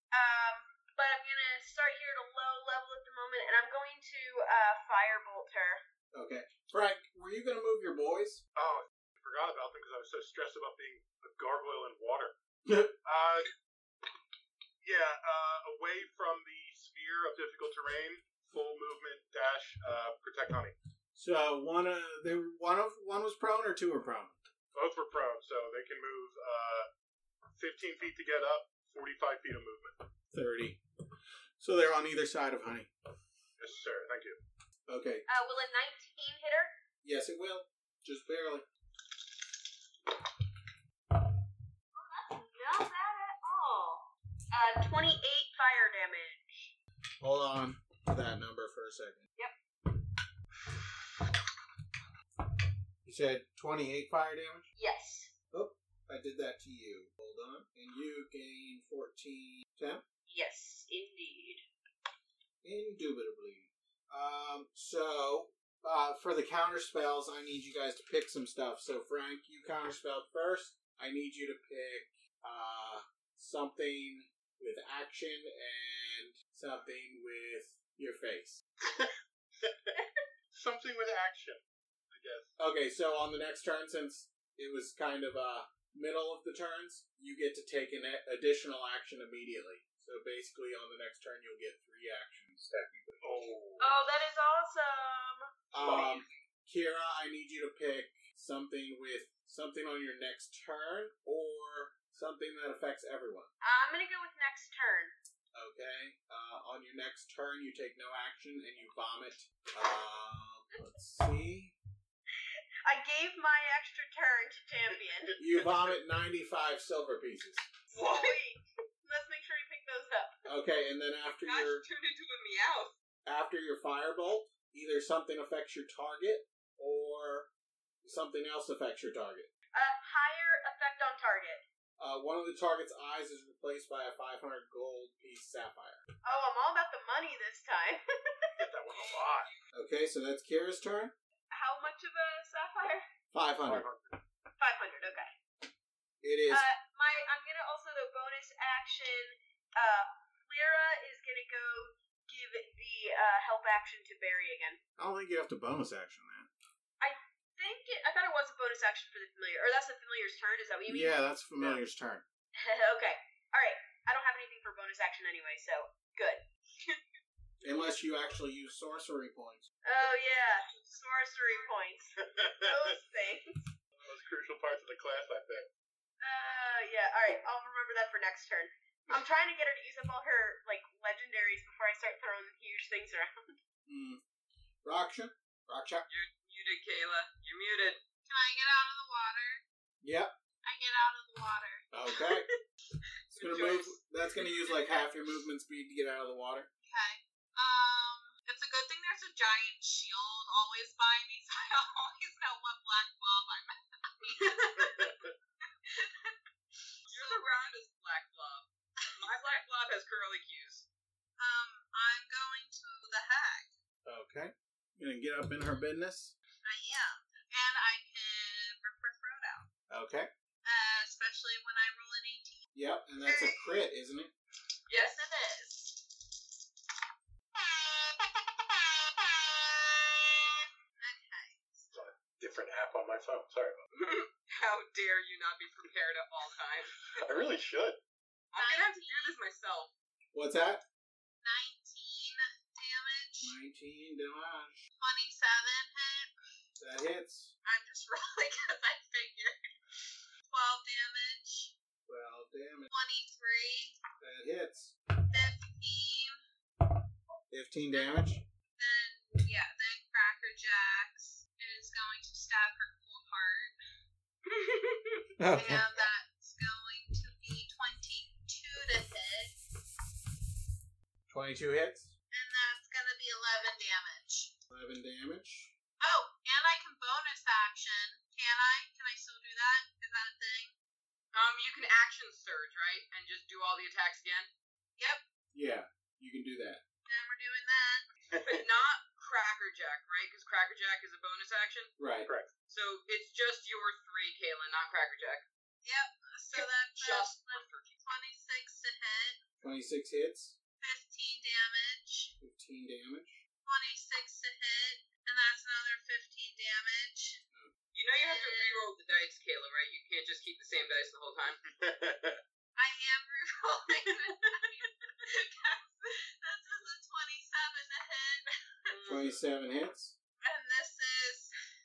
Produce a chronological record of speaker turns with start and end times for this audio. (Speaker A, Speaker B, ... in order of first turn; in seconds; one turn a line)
Speaker A: 0.1-5.8
Speaker B: 6.1-8.4
Speaker C: 8.6-12.3
Speaker B: 12.7-13.0
Speaker C: 13.0-13.6
Speaker C: 14.8-20.8
Speaker B: 21.1-24.4
Speaker C: 24.7-26.9
Speaker C: 27.6-30.0
Speaker B: 30.3-30.8
Speaker B: 31.6-32.9
Speaker C: 33.6-34.4
Speaker B: 34.9-35.2
Speaker A: 35.3-36.7
Speaker B: 37.0-38.7
Speaker A: 42.0-46.7
Speaker B: 47.2-49.2
Speaker B: 53.0-54.7
Speaker A: 54.8-55.3
Speaker B: 55.5-60.0
Speaker A: 60.3-61.6
Speaker B: 62.6-78.6
Speaker C: 78.8-79.9
Speaker C: 80.5-82.6
Speaker B: 82.6-93.4
Speaker C: 93.2-94.0
Speaker A: 93.8-95.5
Speaker B: 95.7-103.5
Speaker D: 95.8-96.3
Speaker C: 95.8-96.2
Speaker A: 103.6-105.1
Speaker B: 105.5-111.8
Speaker A: 112.9-115.4
Speaker B: 115.4-117.7
Speaker A: 117.9-120.5
Speaker D: 118.0-118.3
Speaker B: 120.5-121.8
Speaker D: 121.3-123.0
Speaker B: 123.2-127.5
Speaker B: 128.0-129.5
Speaker A: 129.7-131.6
Speaker B: 132.0-136.0
Speaker A: 136.2-138.5
Speaker C: 138.6-139.5
Speaker D: 139.0-139.6
Speaker B: 139.7-141.1
Speaker A: 141.5-143.1
Speaker B: 143.3-143.9
Speaker C: 143.7-144.2
Speaker A: 144.6-145.3
Speaker B: 146.2-146.7
Speaker A: 146.5-154.8
Speaker B: 155.0-156.5
Speaker A: 157.0-161.2
Speaker B: 160.9-162.2
Speaker A: 162.6-166.4
Speaker B: 167.6-169.7
Speaker A: 169.8-173.7
Speaker D: 170.2-171.7
Speaker C: 172.2-173.0
Speaker C: 174.0-175.7
Speaker A: 176.2-183.6
Speaker B: 183.9-184.2
Speaker B: 184.8-186.1
Speaker D: 186.1-188.0
Speaker E: 188.3-189.6
Speaker B: 190.0-190.3
Speaker E: 190.6-192.4
Speaker B: 191.9-192.5
Speaker D: 193.3-194.0
Speaker B: 193.4-196.7
Speaker E: 196.8-205.3
Speaker C: 205.0-205.3
Speaker E: 205.8-206.4
Speaker E: 207.1-207.5
Speaker D: 207.1-208.7
Speaker E: 209.0-209.6
Speaker D: 209.2-210.9
Speaker E: 211.4-213.7
Speaker B: 214.1-216.3
Speaker E: 216.6-219.7
Speaker B: 219.9-220.3
Speaker E: 220.6-222.7
Speaker B: 222.7-224.3
Speaker E: 223.2-223.8
Speaker D: 224.9-225.3
Speaker E: 224.9-226.2
Speaker E: 227.6-231.9
Speaker C: 231.9-233.8
Speaker D: 233.9-237.5
Speaker C: 237.1-238.0
Speaker D: 238.5-239.9
Speaker E: 238.6-239.4
Speaker B: 240.3-240.8
Speaker E: 241.4-243.6
Speaker B: 243.4-244.8
Speaker E: 245.0-246.3
Speaker B: 246.8-247.5
Speaker E: 247.7-249.6
Speaker E: 250.5-251.7
Speaker B: 252.1-252.9
Speaker E: 252.9-254.0
Speaker B: 254.2-255.0
Speaker E: 255.2-256.4
Speaker B: 257.5-258.4
Speaker E: 257.9-263.8
Speaker D: 264.5-265.2
Speaker B: 265.4-265.9
Speaker E: 265.5-269.6
Speaker B: 271.3-272.1
Speaker E: 272.3-274.5
Speaker B: 274.7-275.7
Speaker E: 276.0-280.7
Speaker D: 281.3-284.5
Speaker B: 285.5-286.8
Speaker E: 287.1-288.1
Speaker C: 288.3-288.7
Speaker D: 288.4-291.9
Speaker B: 292.0-292.3
Speaker C: 292.3-292.5
Speaker D: 292.7-295.4
Speaker E: 295.8-299.4
Speaker D: 296.5-298.0
Speaker B: 299.6-300.6
Speaker E: 300.8-302.3
Speaker B: 302.4-303.4
Speaker E: 303.6-307.4
Speaker D: 307.9-311.6
Speaker E: 308.2-308.9
Speaker C: 311.6-312.4
Speaker E: 312.8-319.1
Speaker D: 314.1-314.5
Speaker D: 318.9-319.4
Speaker B: 319.1-320.1
Speaker E: 320.4-321.5